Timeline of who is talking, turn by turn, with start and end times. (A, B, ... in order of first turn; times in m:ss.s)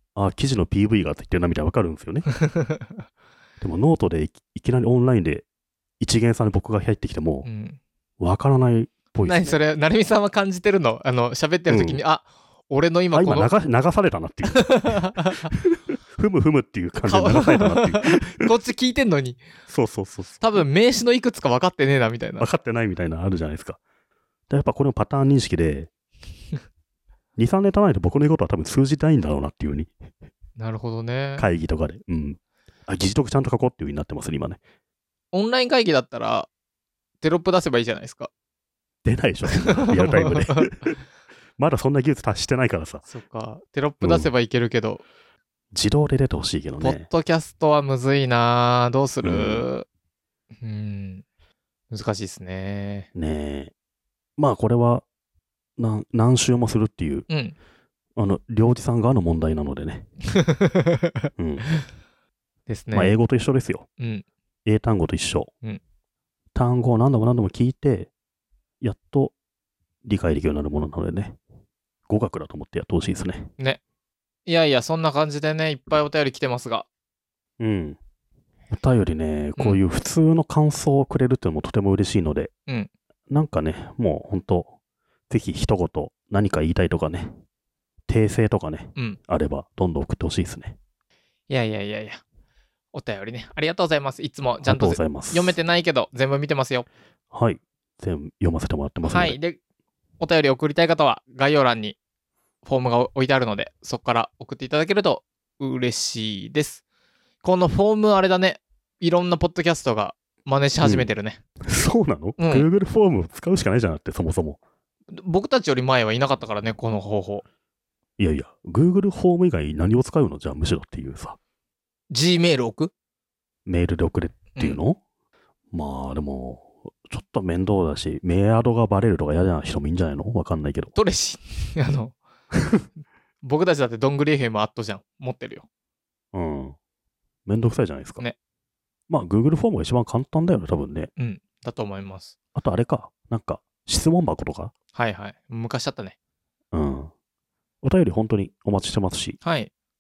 0:00.2-0:02.3 A
0:02.5-0:03.0 B
0:03.6-0:05.5 A
0:06.0-0:07.5 A
0:07.4-0:07.8 B
0:08.2-0:09.6 A
0:09.2-0:13.5 B
0:11.7-0:12.0 A
0:13.1-0:18.5 A
0:14.6-0:15.5 B
0:17.0-0:19.4 B
0:19.7-0:20.4 A
0:20.4-0:22.5 B
0:22.4-0:23.8 A
0:24.5-0:25.9 A
0:27.4-0:29.9 A
0:30.6-0:31.5 B
0:31.4-0:34.6 A
0:35.3-0:36.5 B
0:37.2-0:38.3 B
0:39.0-0:41.0 A
0:39.5-0:40.7 B
0:41.6-0:43.0 A
0:43.1-0:45.0 B
0:44.0-0:44.3 A
0:45.7-0:47.0 A
0:46.8-0:49.9 B
0:49.2-0:49.7 A
0:50.6-0:51.2 B
0:51.9-0:53.1 B
0:53.2-0:53.7 A
0:54.4-0:55.0 A
0:55.8-0:57.3 A
0:57.3-0:57.6 B
0:58.2-1:00.1 A
1:00.3-1:01.3 B
1:01.4-1:01.6 A
1:02.7-1:03.2 B
1:02.9-1:03.9 A
1:04.0-1:04.2 B
1:04.6-1:05.5 A
1:06.5-1:08.1 A
1:08.8-1:09.4 A
1:10.0-1:11.4 A
1:12.1-1:13.5 A
1:14.5-1:16.9 B
1:17.6-1:18.0 A
1:18.7-1:22.5 A
1:23.3-1:24.7 A
1:25.3-1:27.4 A
1:28.1-1:30.8 A
1:31.5-1:32.2 B
1:32.9-1:36.9 B
1:34.6-1:35.6 A
1:37.3-1:39.4 A
1:39.0-1:39.6 B
1:40.2-1:42.0 B
1:42.6-1:46.8 B
1:47.4-1:51.4 B
1:50.8-1:51.1 A
1:51.7-1:54.6 A
1:52.4-1:52.7 B
1:55.1-1:57.4 B
1:58.2-2:01.4 A
2:02.1-2:02.9 B
2:03.7-2:05.0 A
2:04.6-2:04.8 B
2:05.7-2:10.9 A
2:11.0-2:12.2 B
2:13.4-2:15.6 B
2:16.3-2:16.8 A
2:17.5-2:18.3 A
2:19.1-2:21.1 A
2:21.2-2:22.3 B
2:22.6-2:24.7 A
2:24.9-2:26.2 B
2:26.7-2:27.1 A
2:27.8-2:29.4 A
2:29.4-2:29.7 B